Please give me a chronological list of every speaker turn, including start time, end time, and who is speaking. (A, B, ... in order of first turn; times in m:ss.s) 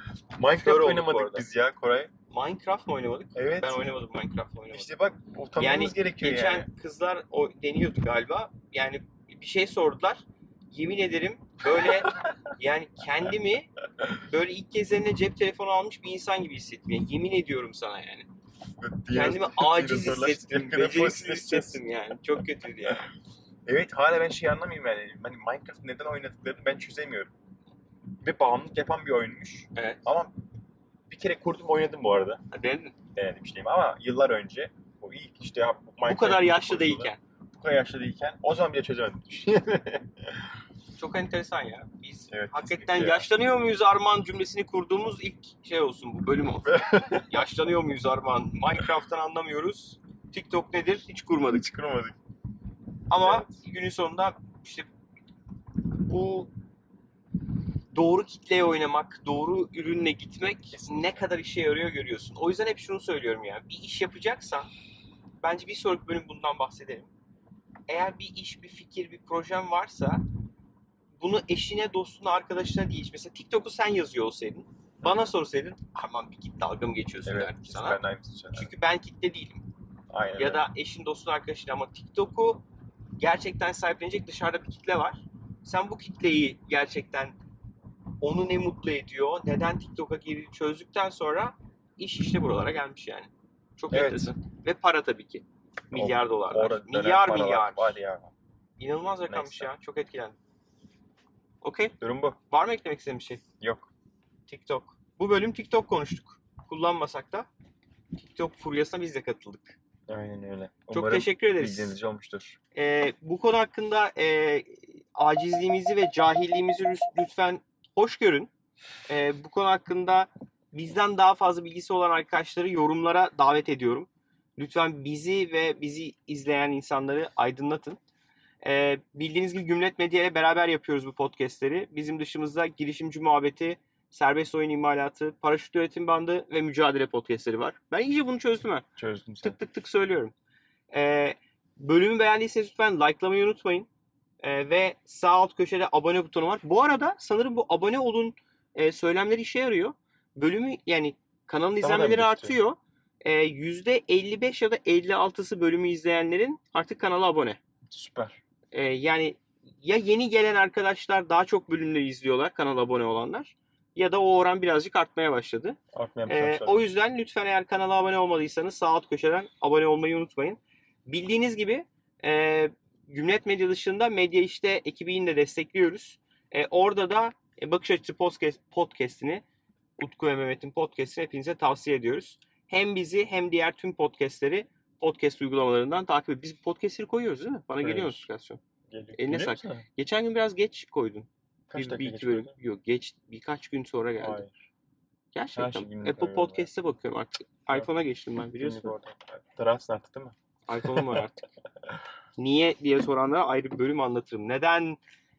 0:00.3-0:02.1 A
0:00.5-0:01.4 B
0:02.3-0:04.9 B
0:03.3-0:03.8 A
0:04.7-0:06.7 A
0:05.6-0:18.3 B
0:11.9-0:12.3 A
0:18.8-0:21.8 A
0:19.1-0:23.0 B
0:23.6-0:27.3 A
0:28.2-0:30.3 A
0:29.7-0:30.0 B
0:31.1-0:32.4 A
0:32.5-0:32.9 B
0:33.2-0:40.4 A
0:36.0-0:37.2 B
0:40.9-0:51.7 B
0:42.3-0:43.3 A
0:46.6-0:47.3 A
0:51.4-0:52.2 A
0:53.1-0:54.9 B
0:53.2-0:53.6 A
0:55.9-0:56.5 B
0:57.9-1:04.7 B
1:00.7-1:01.2 A
1:05.4-1:07.1 B
1:07.9-1:10.2 B
1:11.2-1:18.0 B
1:17.2-1:18.7 A
1:18.5-1:19.6 B
1:20.1-1:20.7 A
1:20.4-1:22.6 B
1:23.2-1:27.4 B
1:28.2-1:38.0 B
1:33.9-1:34.3 A
1:35.9-1:38.3 A
1:38.8-1:40.4 B
1:39.3-1:39.7 A
1:41.6-1:41.9 B
1:42.0-1:42.4 A
1:42.5-1:43.4 B
1:43.6-1:43.9 A
1:44.5-1:47.5 B
1:48.2-1:49.8 B
1:50.1-1:52.6 A
1:50.9-1:52.0 B
1:52.7-1:58.5 B
1:59.1-2:08.0 B
2:08.6-2:18.9 B
2:19.0-2:19.6 A
2:19.4-2:20.3 B
2:20.9-2:23.9 B
2:24.4-2:37.6 B
2:31.8-2:32.6 A
2:37.9-2:38.4 A
2:38.7-2:59.4 B
2:45.9-2:46.9 A
3:00.0-3:08.6 B
3:07.8-3:08.3 A
3:08.9-3:09.8 A
3:09.2-3:14.4 B
3:11.7-3:12.5 A
3:14.2-3:14.5 A
3:15.3-3:19.0 B
3:15.5-3:16.7 A
3:18.6-3:21.3 A
3:20.7-3:21.4 B
3:22.4-3:25.0 B